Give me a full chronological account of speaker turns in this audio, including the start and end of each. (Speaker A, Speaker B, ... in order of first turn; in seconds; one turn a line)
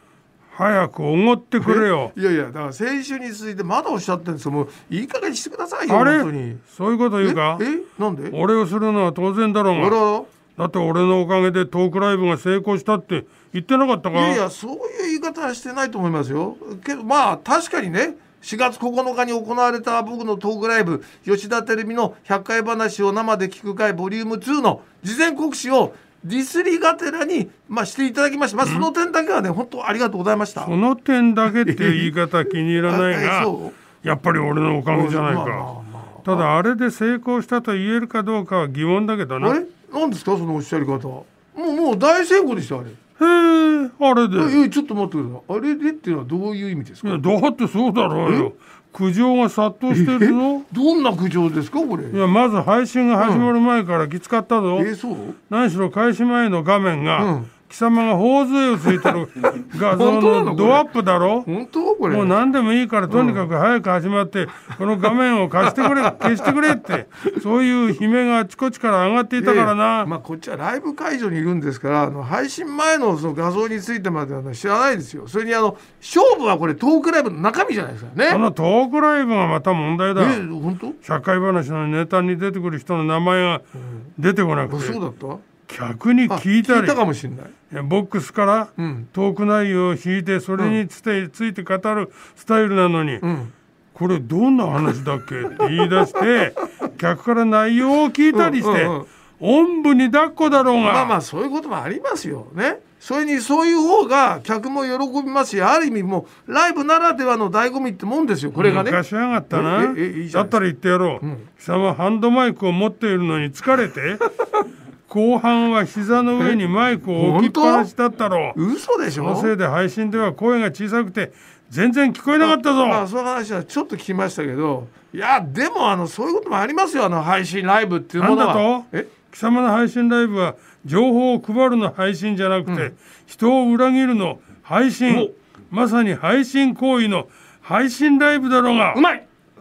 Speaker A: 0.5-2.1
Speaker B: 1.6-6.6
Speaker A: 5.9-7.6
Speaker B: 7.2-8.4
Speaker A: 8.3-10.0
Speaker B: 9.7-10.3
Speaker A: 10.6-14.4
Speaker B: 14.1-30.7
Speaker A: 30.6-33.5
Speaker B: 31.5-32.1
Speaker B: 32.9-33.8
Speaker A: 34.0-35.7
Speaker B: 34.9-36.5
Speaker A: 36.2-39.6
Speaker B: 39.4-43.0
Speaker A: 43.2-44.6
Speaker B: 44.4-47.2
Speaker A: 47.0-50.6
Speaker B: 49.9-52.2
Speaker A: 52.1-54.9
Speaker B: 53.2-53.5
Speaker B: 54.8-55.4
Speaker A: 55.5-61.5
Speaker B: 57.2-57.5
Speaker B: 58.9-60.9
Speaker B: 61.5-62.4
Speaker A: 62.1-70.1
Speaker B: 63.1-63.4
Speaker B: 65.7-66.3
Speaker B: 69.4-78.4
Speaker A: 78.3-80.4
Speaker B: 80.2-81.0
Speaker A: 81.0-83.6
Speaker B: 83.8-84.1
Speaker A: 84.2-85.0
Speaker B: 84.7-85.4
Speaker A: 85.7-87.0
Speaker B: 86.3-87.5
Speaker A: 87.7-93.2
Speaker B: 88.8-89.1
Speaker B: 93.2-93.5
Speaker A: 93.9-101.1
Speaker B: 98.3-99.1
Speaker B: 100.8-109.0
Speaker A: 108.6-114.2
Speaker B: 109.5-110.6
Speaker B: 111.2-111.5
Speaker A: 115.1-118.6
Speaker B: 117.2-117.9
Speaker B: 118.5-119.5
Speaker A: 119.1-123.0
Speaker B: 122.4-129.1
Speaker A: 128.2-139.0
Speaker B: 132.7-132.9
Speaker B: 138.9-139.2